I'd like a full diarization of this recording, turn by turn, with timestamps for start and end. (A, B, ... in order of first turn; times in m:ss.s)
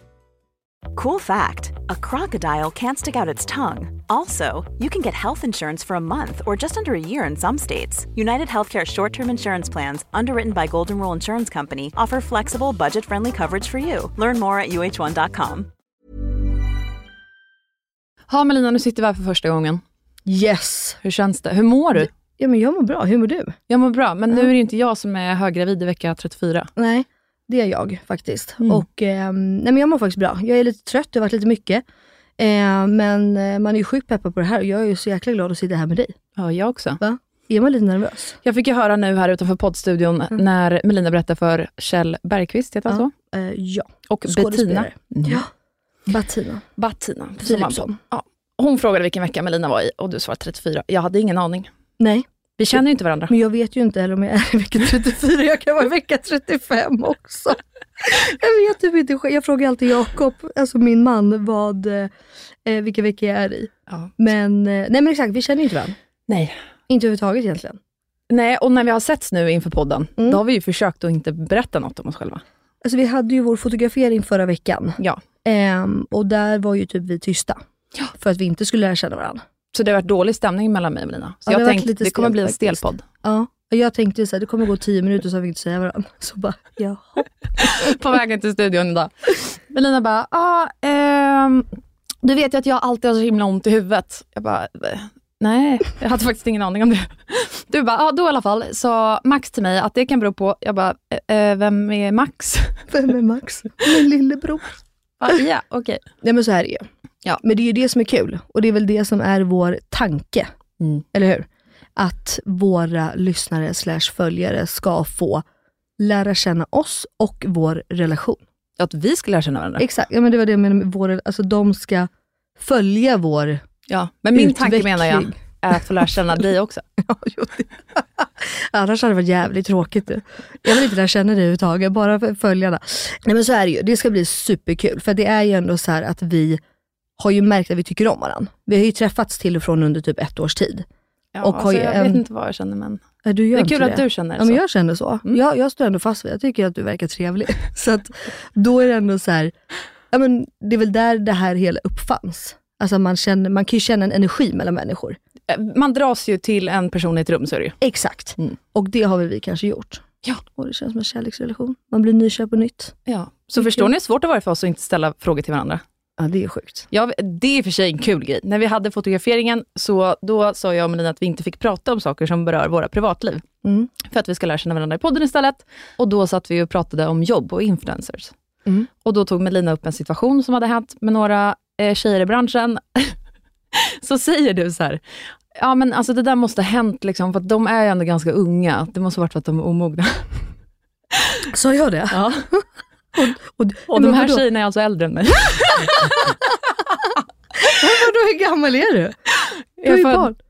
0:01.0-0:15.7 A
0:18.3-0:19.8 B
0:20.3-0:21.0 C
0:21.0-0:22.1 B
0:22.2-0:23.6 C
0:23.7-0:26.7 B
0:26.8-0:31.8 C
0:32.4-0:36.2 C
0:36.4-0:37.0 B
0:37.0-0:38.4 C
0:38.4-0:43.1 B
0:42.9-0:45.5 C
0:44.1-0:45.4 B
0:46.1-0:46.7 C
0:46.8-0:51.7 B
0:47.4-0:48.0 C
0:52.0-1:02.1 C
0:52.6-0:53.3 B
1:02.6-1:06.0 C
1:06.3-1:06.6 B
1:06.9-1:07.8 C
1:08.3-1:12.4 B
1:12.8-1:17.6 C
1:18.1-1:19.4 C
1:19.7-1:23.0 B
1:21.5-1:27.8 C
1:27.6-1:31.7 B
1:32.2-1:42.8 B
1:42.9-1:44.7 C
1:45.2-1:46.1 B
1:46.2-1:46.9 C
1:47.4-1:50.5 C
1:51.1-1:55.4 C
1:56.0-1:58.4 C
1:58.8-1:59.9 B
1:59.8-2:03.6 C
2:03.9-2:06.8 B
2:04.3-2:05.4 C
2:07.0-2:16.6 C
2:17.2-2:20.9 C
2:21.4-2:23.0 B
2:21.4-2:22.2 C
2:23.2-2:29.5 C
2:23.5-2:24.6 B
2:30.1-2:35.2 C
2:35.5-2:37.8 B
2:37.8-2:43.0 C
2:43.1-2:45.8 B
2:43.6-2:43.9 C
2:46.2-2:46.9 C
2:46.9-2:53.4 B
2:53.6-2:53.9 C
2:54.1-2:58.3 B
2:59.0-3:03.2 B
3:03.7-3:05.0 B
3:05.6-3:10.3 B
3:11.5-3:12.6 C
3:12.1-3:12.5 B
3:13.2-3:14.4 C
3:13.9-3:16.3 B
3:16.0-3:19.2 C
3:19.4-3:20.3 B
3:19.8-3:20.4 C